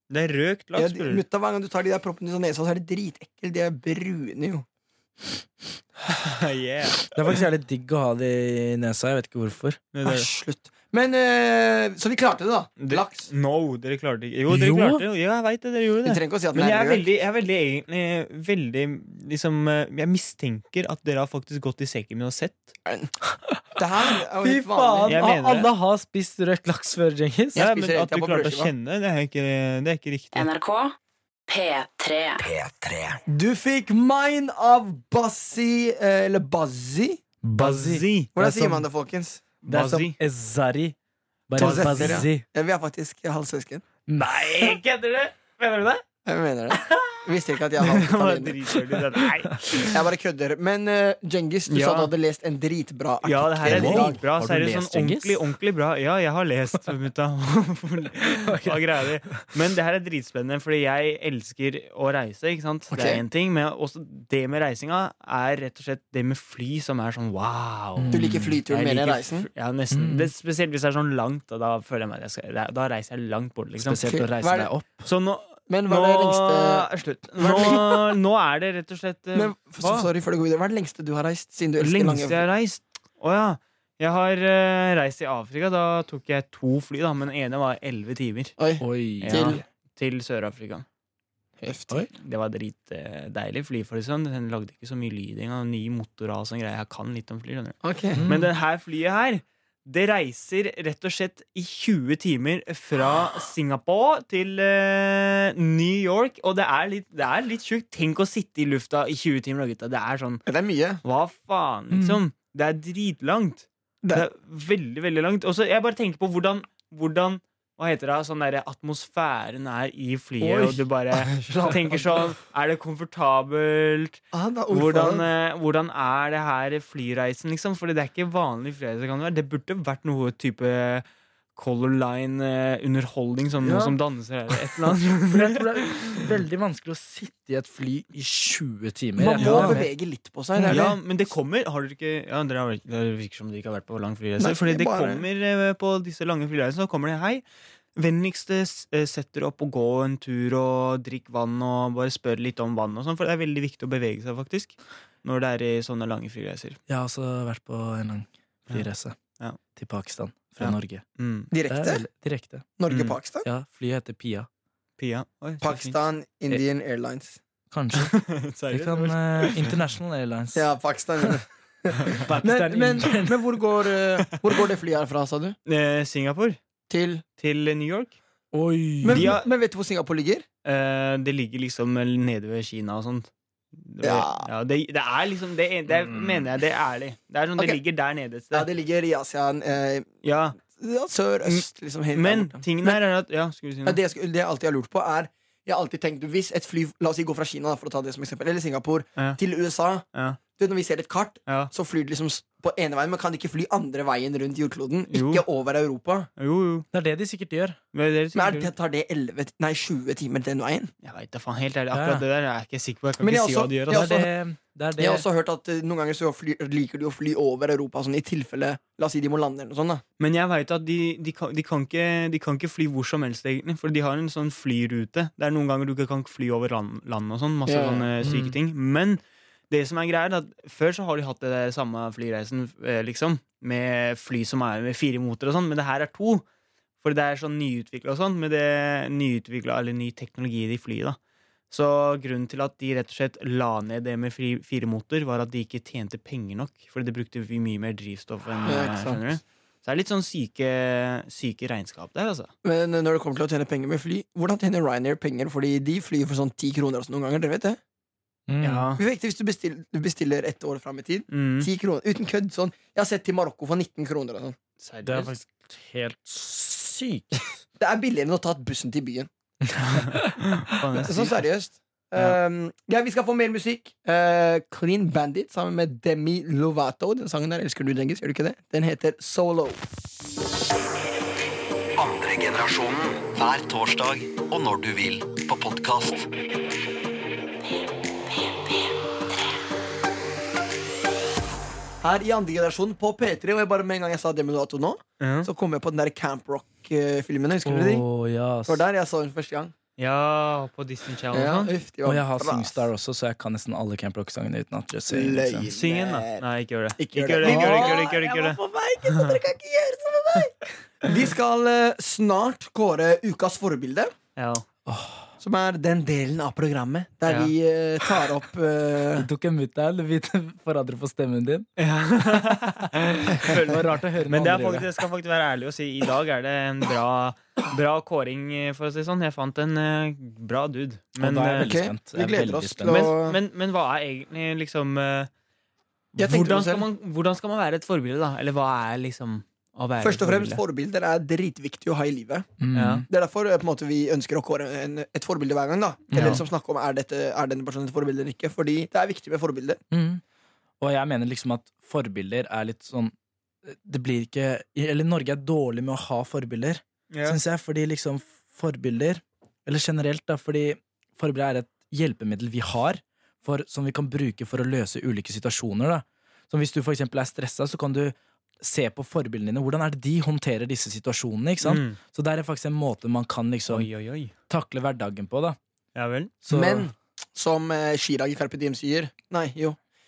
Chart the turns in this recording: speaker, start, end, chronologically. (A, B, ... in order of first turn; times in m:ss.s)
0:00.1-0:01.2 A
0:00.8-0:04.6 B
0:06.1-0:07.1 A
0:07.1-0:09.8 C
0:09.9-0:10.3 A
0:10.0-0:13.3 B
0:12.8-0:22.7 A
0:14.5-0:15.0 C
0:16.0-0:17.0 B
0:22.8-0:23.1 B
0:23.7-0:25.2 B
0:24.4-0:27.6 C
0:25.1-0:25.7 A
0:27.5-0:28.7 B
0:27.6-0:30.5 A
0:30.3-0:30.9 D
0:31.5-0:32.4 D
0:32.4-0:33.2 E
0:33.3-0:37.2 B
0:37.4-0:38.8 C
0:37.6-0:38.3 A
0:38.3-0:39.4 B
0:39.6-0:40.2 A
0:39.7-0:41.0 C
0:41.5-0:42.4 C
0:41.6-0:42.3 A
0:41.6-0:43.8 B
0:44.1-0:44.8 C
0:44.2-0:46.0 A
0:46.2-0:48.7 B
0:47.8-0:49.9 A
0:49.5-0:49.8 C
0:49.8-0:54.2 B
0:51.7-0:52.1 A
0:53.2-1:14.0 A
0:53.6-0:55.4 C
0:58.2-0:59.5 C
1:02.9-1:03.2 B
1:08.0-1:08.6 C
1:08.1-1:09.5 B
1:09.9-1:10.3 C
1:13.8-1:15.1 C
1:14.0-1:14.7 B
1:15.0-1:20.1 A
1:15.7-1:16.9 B
1:17.4-1:17.9 B
1:19.3-1:22.4 B
1:21.8-1:28.6 A
1:28.6-1:29.6 B
1:28.8-1:29.6 C
1:29.2-1:30.8 A
1:31.6-1:32.0 B
1:32.1-1:50.4 A
1:37.8-1:38.2 B
1:38.1-1:38.5 C
1:50.5-1:51.0 B
1:51.0-2:11.0 A
1:51.9-1:52.2 C
2:00.4-2:02.3 B
2:04.3-2:05.2 B
2:11.6-2:16.2 A
2:13.6-2:13.9 B
2:15.2-2:19.8 C
2:19.2-2:21.0 B
2:19.4-2:19.9 A
2:20.6-2:20.8 C
2:20.7-2:27.4 A
2:24.4-2:25.2 B
2:28.0-2:36.8 A
2:36.9-2:39.1 C
2:39.8-2:41.0 C
2:40.6-2:41.5 A
2:41.5-2:42.1 B
2:41.7-2:42.6 C
2:42.8-2:43.5 B
2:42.9-2:43.2 A
2:43.4-2:44.5 C
2:45.0-2:46.0 A
2:45.6-2:47.4 B
2:47.7-2:50.7 C
2:48.0-2:49.7 A
2:50.5-2:55.6 B
2:52.2-2:53.9 C
2:55.7-2:56.6 A
2:56.9-2:57.2 B
2:57.4-2:58.2 A
2:58.5-2:59.4 C
2:59.0-3:00.4 B
2:59.1-2:59.4 A
3:00.6-3:08.7 A
3:04.0-3:04.5 B
3:08.5-3:13.0 B
3:10.2-3:10.6 A
3:11.4-3:14.0 A
3:13.8-3:26.3 B
3:20.1-3:20.4 A
3:25.1-3:25.4 A
3:26.4-3:26.8 A
3:26.9-3:27.8 C
3:27.9-3:28.7 A
3:28.3-3:30.9 B
3:31.0-3:34.2 A
3:31.9-3:32.2 C
3:33.2-3:34.3 B
3:33.9-3:35.2 C
3:35.0-3:40.0 B
3:40.2-3:56.4 A
3:47.6-3:48.1 B
3:48.2-3:48.6 C
3:57.0-4:01.2 A
4:01.7-4:12.5 A
4:08.6-4:09.2 B
4:12.6-4:17.8 B
4:18.5-4:18.9 C
4:18.6-4:19.0 A
4:19.0-4:24.6 B
4:21.3-4:21.7 A
4:24.8-4:25.4 A
4:25.0-4:27.4 C
4:27.8-4:29.3 B
4:29.8-4:31.4 A
4:30.0-4:30.7 C
4:31.0-4:39.8 B
4:42.0-4:46.3 E
4:47.7-4:49.5 D
4:52.0-4:58.1 B
4:55.2-4:55.5 A
4:57.6-4:58.8 C
4:58.6-4:59.7 B
5:00.0-5:01.7 A
5:01.3-5:02.9 B
5:02.0-5:05.7 C
5:05.1-5:06.4 B
5:05.7-5:08.6 A
5:07.0-5:14.1 B
5:07.4-5:08.4 C
5:14.4-5:14.6 A
5:14.8-5:15.3 C
5:15.4-5:19.3 B
5:17.2-5:17.5 A
5:19.2-5:21.7 C
5:21.8-5:31.7 A
5:22.4-5:24.9 C
5:31.2-5:33.1 C
5:31.6-5:33.4 B
5:32.9-5:35.3 A
5:36.2-5:36.8 B
5:36.2-5:40.6 A
5:40.0-5:42.6 B
5:42.6-5:43.0 C
5:42.7-5:43.0 A
5:43.1-5:49.8 B
5:46.1-5:46.4 C
5:46.1-5:46.4 A
5:49.9-5:50.2 C
5:50.8-5:53.1 C
5:53.6-6:13.9 C
5:57.1-5:57.4 A
6:11.6-6:12.0 A
6:13.7-6:14.3 A
6:14.5-6:15.6 C
6:15.9-6:16.3 A
6:16.4-6:16.9 C
6:16.5-6:19.8 B